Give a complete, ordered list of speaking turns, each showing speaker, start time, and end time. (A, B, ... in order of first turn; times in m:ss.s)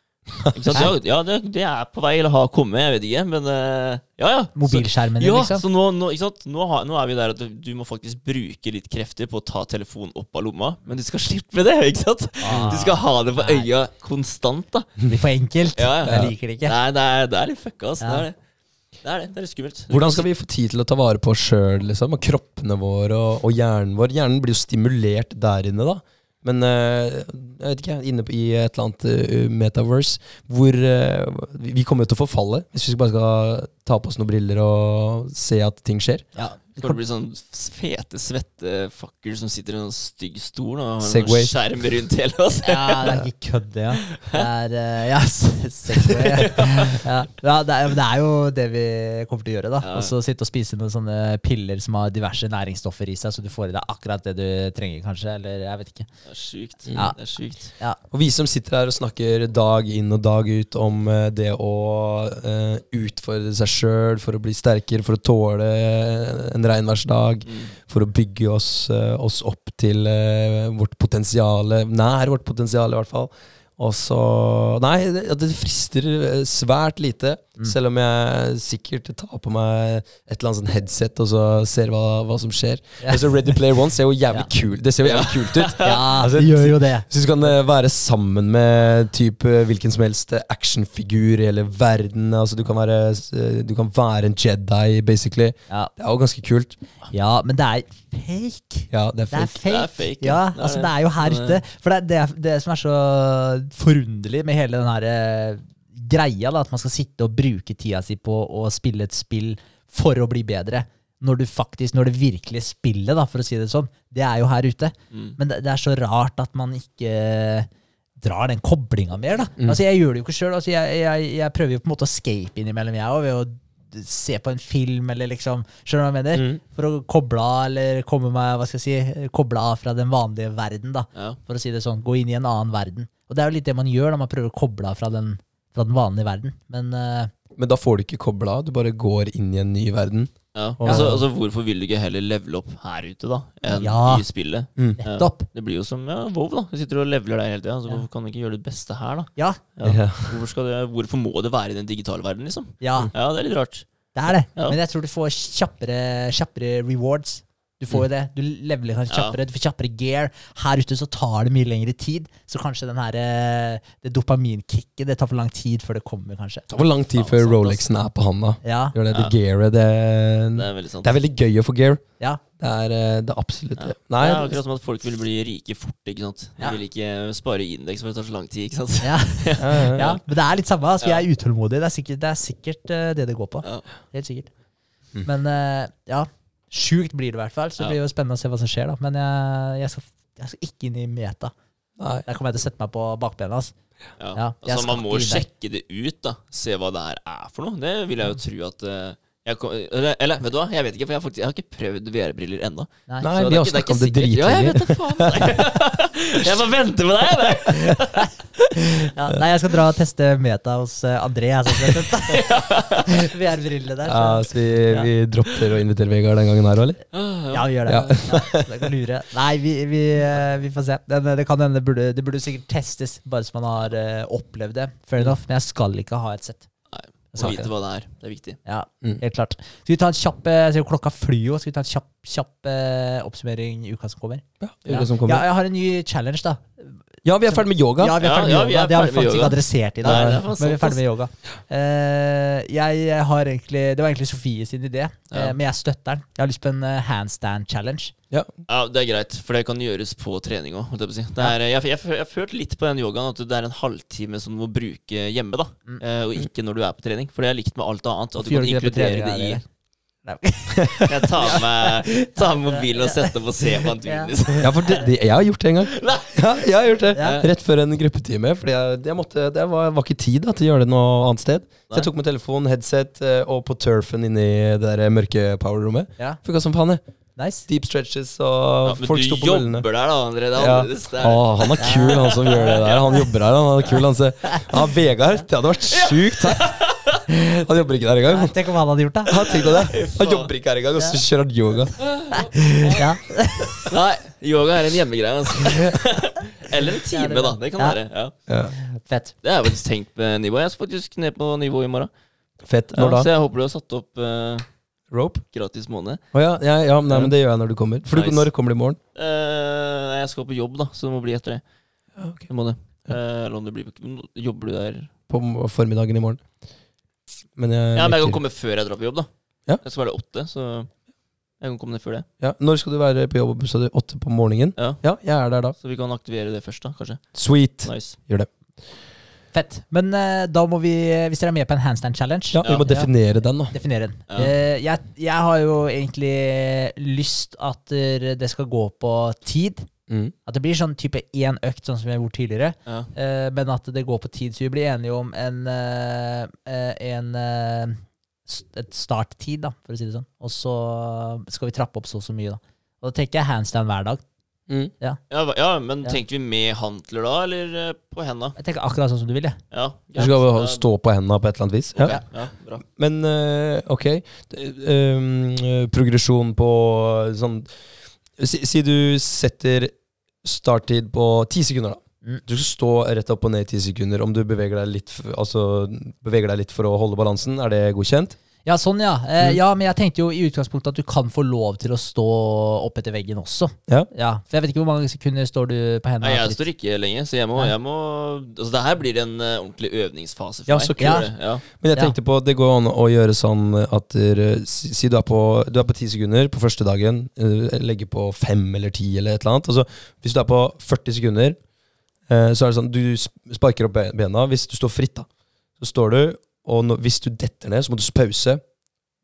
0:00.4-0:00.9 A
0:00.5-0:15.0 B
0:04.6-0:05.6 C
0:12.4-0:13.7 C
0:12.5-0:12.8 A
0:15.1-0:16.7 C
0:15.8-0:18.4 B
0:16.1-0:16.3 A
0:18.0-0:18.3 C
0:19.0-0:20.3 B
0:19.9-0:36.3 A
0:36.4-0:37.0 C
0:36.8-0:43.2 B
0:41.0-0:41.5 A
0:42.6-0:56.1 C
0:44.0-0:44.4 B
0:46.0-0:47.0 B
0:49.8-0:50.1 B
0:56.2-0:57.7 B
0:57.0-0:58.0 C
0:58.1-1:36.8 A
1:07.5-1:07.7 B
1:25.0-1:26.0 B
1:25.8-1:27.1 C
1:37.1-2:17.3 C
1:38.9-1:39.6 A
1:39.6-1:41.6 B
1:55.1-1:55.4 B
2:06.3-2:06.6 A
2:17.6-2:21.2 A
2:20.6-2:33.9 B
2:20.8-2:21.2 C
2:23.7-2:24.3 C
2:25.0-2:25.5 C
2:29.8-2:30.4 A
2:32.8-2:33.1 C
2:34.1-2:46.7 C
2:39.1-2:39.4 B
2:46.7-2:52.0 A
2:47.2-2:47.8 B
2:48.6-2:49.0 C
2:50.6-2:51.1 B
2:52.6-2:54.6 A
2:53.8-3:00.2 B
2:59.0-3:04.5 C
2:59.6-3:00.2 A
3:05.2-3:11.5 C
3:12.0-3:12.2 A
3:12.2-3:13.7 C
3:14.2-3:28.3 B
3:14.3-3:15.5 C
3:23.2-3:25.7 A
3:28.1-3:35.1 C
3:32.3-3:33.1 B
3:34.0-3:37.0 A
3:37.1-3:37.7 B
3:37.5-3:46.7 C
3:37.9-3:38.8 A
3:46.9-3:48.6 B
3:47.3-3:47.7 C
3:48.6-4:08.1 C
3:54.6-3:55.4 A
3:57.2-3:58.2 A
3:58.2-4:01.0 B
4:00.0-4:00.4 A
4:08.7-4:19.6 B
4:18.4-4:19.7 C
4:20.2-4:25.0 C
4:20.8-4:21.3 A
4:21.1-4:25.0 B
4:24.6-4:37.0 A
4:25.9-4:26.5 B
4:27.2-4:27.4 C
4:27.2-4:27.5 B
4:37.4-4:37.7 C
4:37.7-4:39.9 A
4:38.8-4:43.2 B
4:40.6-4:46.8 A
4:41.8-4:43.2 C
4:45.9-4:47.2 B
4:47.3-4:47.6 C
4:47.6-4:48.6 A
4:48.2-4:49.9 C
4:49.2-4:52.1 A
4:49.4-4:50.5 B
4:52.1-4:53.0 B
4:52.3-4:53.9 C
4:53.8-4:58.3 B
4:57.1-4:58.0 C
4:58.5-4:58.8 A
4:58.8-4:59.4 C
4:59.4-5:02.1 B
5:02.6-5:03.3 A
5:02.9-5:04.7 B
5:05.1-5:05.4 A
5:05.5-5:06.2 B
5:06.3-5:09.0 A
5:08.1-5:08.5 B
5:09.2-5:11.6 B
5:12.2-5:12.5 A
5:12.5-5:15.1 B
5:15.3-5:16.4 A
5:17.6-5:18.4 A
5:18.0-5:20.9 B
5:21.6-5:22.3 B
5:22.4-5:25.8 A
5:24.8-5:25.0 B
5:25.8-5:27.3 B
5:27.3-5:28.5 A
5:27.8-5:28.2 B
5:29.5-5:33.1 C
5:32.5-5:33.8 A
5:32.6-5:32.9 B
5:33.7-5:39.9 C
5:34.3-5:34.5 B
5:40.1-5:40.3 A
5:40.5-5:54.2 C
5:55.3-5:58.6 B
5:58.6-5:59.6 C
5:59.7-6:00.8 B
6:00.2-6:02.2 A
6:02.0-6:02.8 B
6:02.8-6:07.7 A
6:08.4-6:18.4 A
6:18.6-6:26.6 C
6:26.2-6:31.6 B
6:30.7-6:41.6 A
6:31.0-6:31.3 C
6:42.3-6:45.3 A
6:45.8-6:48.6 A